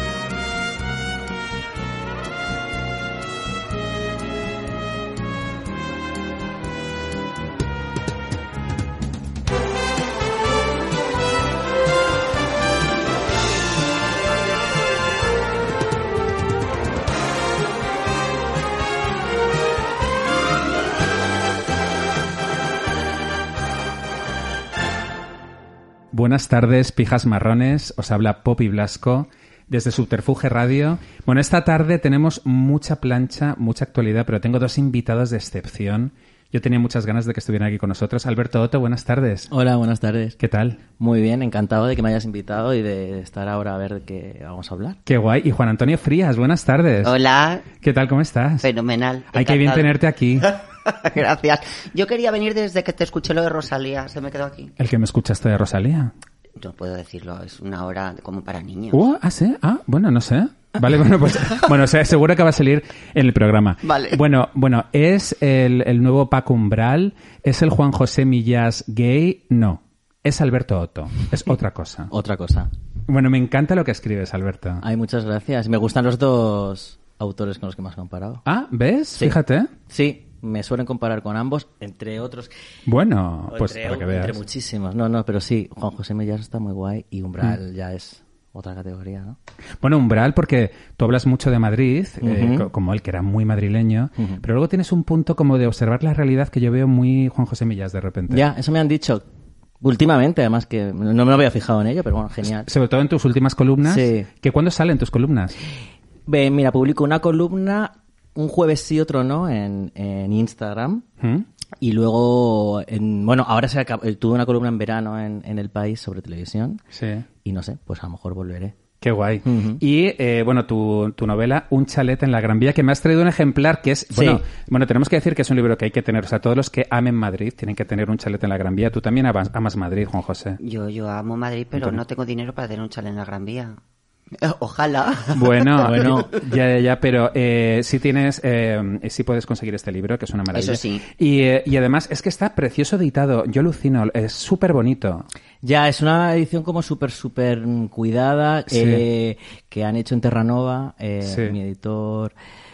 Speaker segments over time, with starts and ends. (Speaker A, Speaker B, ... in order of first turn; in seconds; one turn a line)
Speaker A: 26.1-39.5
Speaker B: 39.5-40.4
Speaker A: 40.4-40.8
Speaker B: 41.0-45.0
Speaker A: 45.0-47.1
Speaker C: 47.0-47.7
Speaker A: 47.8-48.7
Speaker C: 48.6-54.7
Speaker A: 49.3-50.6
Speaker A: 54.8-56.1
Speaker C: 56.6-59.0
Speaker A: 58.9-72.1
Speaker C: 63.8-64.2
Speaker B: 72.1-72.7
Speaker A: 73.1-74.8
Speaker B: 74.8-78.4
Speaker A: 78.4-79.7
Speaker B: 79.9-82.5
Speaker A: 82.8-84.4
Speaker B: 83.5-89.4
Speaker A: 89.8-98.5
Speaker B: 92.2-92.7
Speaker B: 94.2-94.4
Speaker B: 98.3-99.2
Speaker B: 99.8-102.7
Speaker A: 102.7-105.5
Speaker B: 103.8-104.3
Speaker B: 106.3-111.0
Speaker A: 111.2-111.5
Speaker B: 111.8-116.8
Speaker A: 116.9-117.2
Speaker B: 117.4-118.8
Speaker A: 119.0-130.6
Speaker B: 119.4-119.8
Speaker B: 124.1-124.4
Speaker C: 130.6-133.8
Speaker C: 134.4-136.1
Speaker A: 135.3-145.2
Speaker B: 135.8-136.3
Speaker C: 140.5-141.1
Speaker B: 145.6-152.3
Speaker A: 148.7-149.0
Speaker A: 151.2-151.5